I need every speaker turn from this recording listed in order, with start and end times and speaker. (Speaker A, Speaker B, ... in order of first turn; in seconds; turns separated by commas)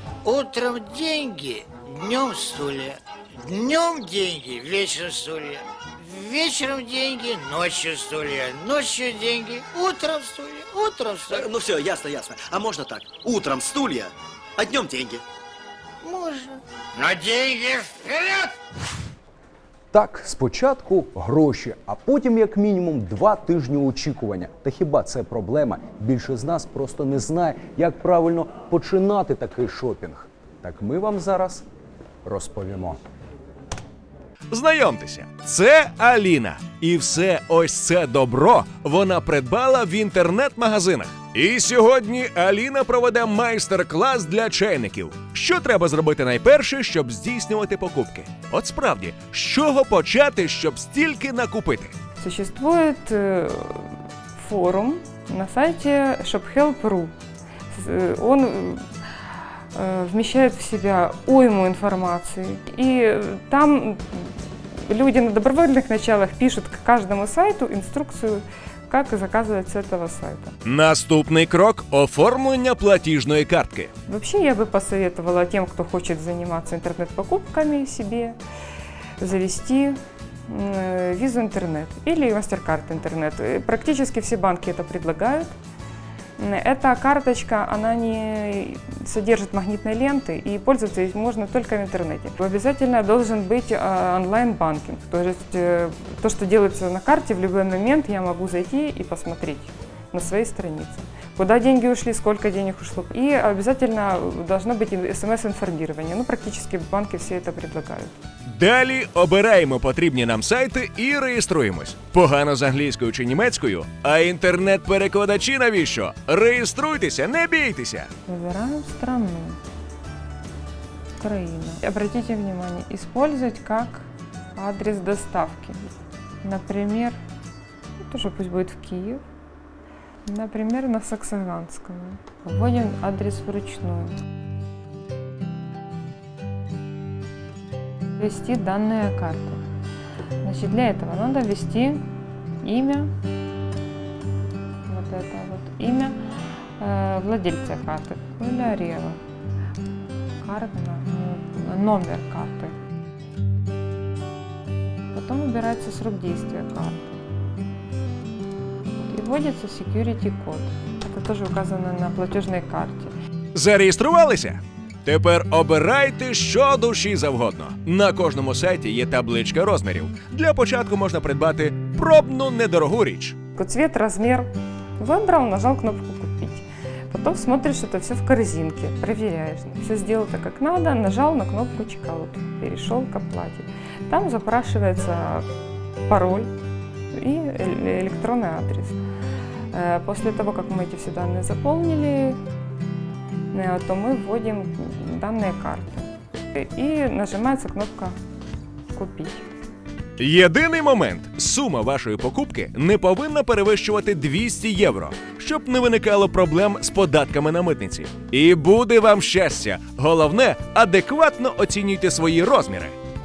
Speaker A: 0.2-11.4, Speaker B: 11.3-15.2, Speaker A: 16.0-18.5, Speaker C: 19.9-31.6, Speaker C: 32.2-33.0, Speaker D: 34.5-52.0, Speaker E: 52.2-57.1, Speaker E: 57.7-58.9, Speaker E: 59.7-70.5, Speaker D: 70.6-73.9, Speaker E: 74.1-78.4, Speaker E: 79.2-85.5, Speaker E: 86.4-108.1, Speaker D: 108.5-118.1, Speaker E: 118.3-119.6, Speaker E: 121.2-125.9, Speaker E: 126.4-127.2, Speaker E: 128.1-129.2, Speaker E: 130.3-134.2, Speaker E: 138.2-139.6, Speaker E: 140.4-142.0, Speaker E: 142.6-143.1, Speaker E: 144.9-149.2, Speaker E: 150.4-152.8, Speaker E: 155.1-157.1, Speaker E: 159.0-163.1, Speaker D: 163.5-173.4, Speaker E: 173.6-185.4, Speaker E: 186.1-186.5, Speaker E: 187.1-189.0, Speaker E: 189.7-192.4, Speaker E: 193.5-198.2, Speaker E: 198.9-199.4, Speaker D: 200.2-213.0